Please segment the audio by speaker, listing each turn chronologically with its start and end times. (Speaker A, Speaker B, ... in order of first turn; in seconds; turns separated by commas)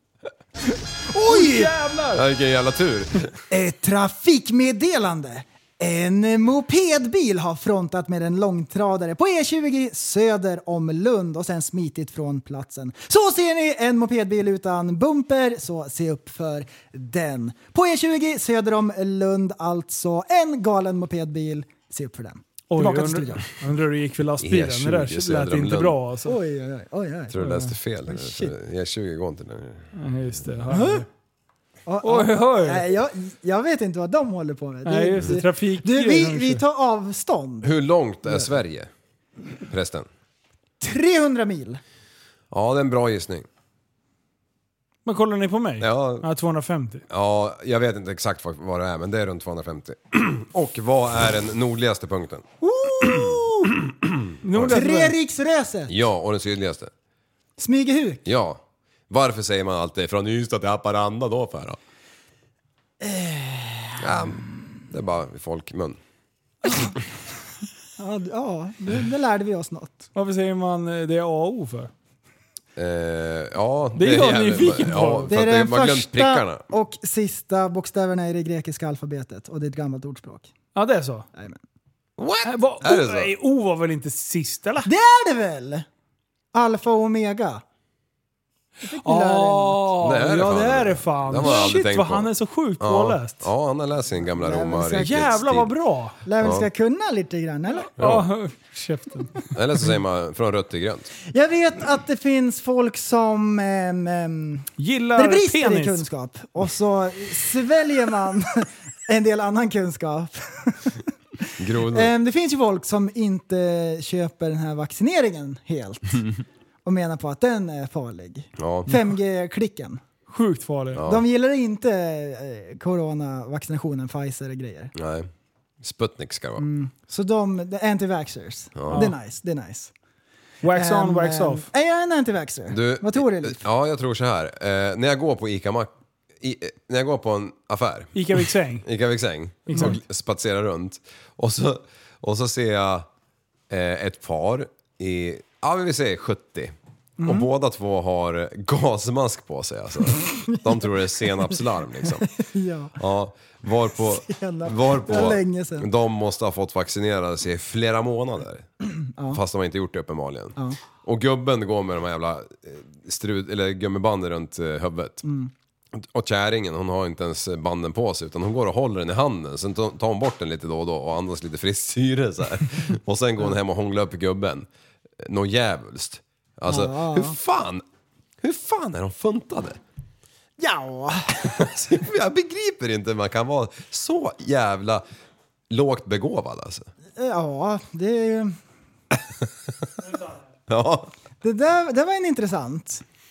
Speaker A: 1.1-1.7, Speaker B: 1.2-2.2, Speaker C: 2.1-3.4, Speaker A: 3.5-23.5, Speaker B: 22.7-26.4, Speaker C: 24.4-26.0, Speaker A: 26.3-27.4, Speaker C: 27.3-29.9, Speaker B: 27.4-27.8, Speaker A: 28.1-28.5, Speaker B: 29.9-31.1, Speaker A: 30.7-31.1, Speaker A: 31.9-37.7, Speaker B: 32.0-32.8, Speaker B: 34.9-36.6, Speaker C: 37.6-38.9, Speaker C: 39.6-40.1, Speaker A: 40.8-41.8, Speaker C: 42.5-43.5, Speaker B: 45.1-47.0, Speaker C: 45.8-46.3, Speaker C: 47.1-52.5, Speaker A: 52.6-53.7, Speaker C: 53.0-53.4, Speaker C: 54.0-54.8, Speaker B: 54.4-55.1, Speaker A: 54.6-55.9, Speaker C: 55.9-56.9, Speaker A: 57.6-58.2, Speaker C: 58.3-61.8, Speaker A: 63.0-64.4, Speaker C: 64.0-66.0, Speaker A: 68.0-70.1, Speaker B: 70.2-71.9, Speaker C: 72.8-76.7, Speaker B: 74.0-75.3, Speaker A: 75.3-80.5, Speaker B: 80.8-81.3, Speaker C: 82.2-83.3, Speaker B: 82.4-84.9, Speaker A: 84.8-85.9, Speaker A: 86.5-87.6, Speaker A: 88.9-89.9, Speaker B: 89.0-93.5, Speaker C: 90.0-95.7, Speaker A: 91.4-91.7, Speaker A: 94.3-95.4, Speaker B: 95.0-96.2, Speaker A: 96.3-97.9, Speaker C: 96.4-96.7, Speaker B: 97.8-99.4, Speaker C: 98.0-98.3, Speaker C: 99.5-101.1, Speaker A: 101.3-111.0, Speaker B: 104.8-106.0, Speaker A: 111.5-116.3, Speaker C: 111.6-112.1, Speaker A: 116.8-120.0, Speaker C: 118.6-118.9, Speaker B: 120.3-121.0, Speaker C: 120.9-121.2, Speaker A: 121.0-124.9, Speaker C: 125.0-125.3, Speaker C: 125.8-126.7, Speaker A: 126.6-129.9, Speaker C: 128.8-129.1, Speaker B: 128.9-129.2, Speaker B: 130.6-131.7, Speaker A: 130.7-133.6, Speaker C: 132.7-143.1, Speaker B: 138.2-138.9, Speaker B: 139.7-140.0, Speaker C: 143.7-152.3, Speaker A: 147.2-147.5, Speaker A: 150.3-150.9, Speaker A: 152.0-153.0, Speaker C: 153.0-158.7, Speaker A: 154.0-155.9, Speaker C: 159.3-165.2, Speaker A: 165.2-165.5, Speaker C: 165.9-174.7, Speaker C: 175.2-177.8, Speaker A: 176.7-177.3, Speaker C: 178.4-179.8, Speaker A: 180.6-181.6, Speaker C: 181.4-185.0, Speaker C: 185.7-186.9, Speaker A: 187.2-188.6, Speaker B: 190.0-190.3, Speaker C: 190.7-191.1, Speaker A: 191.4-193.0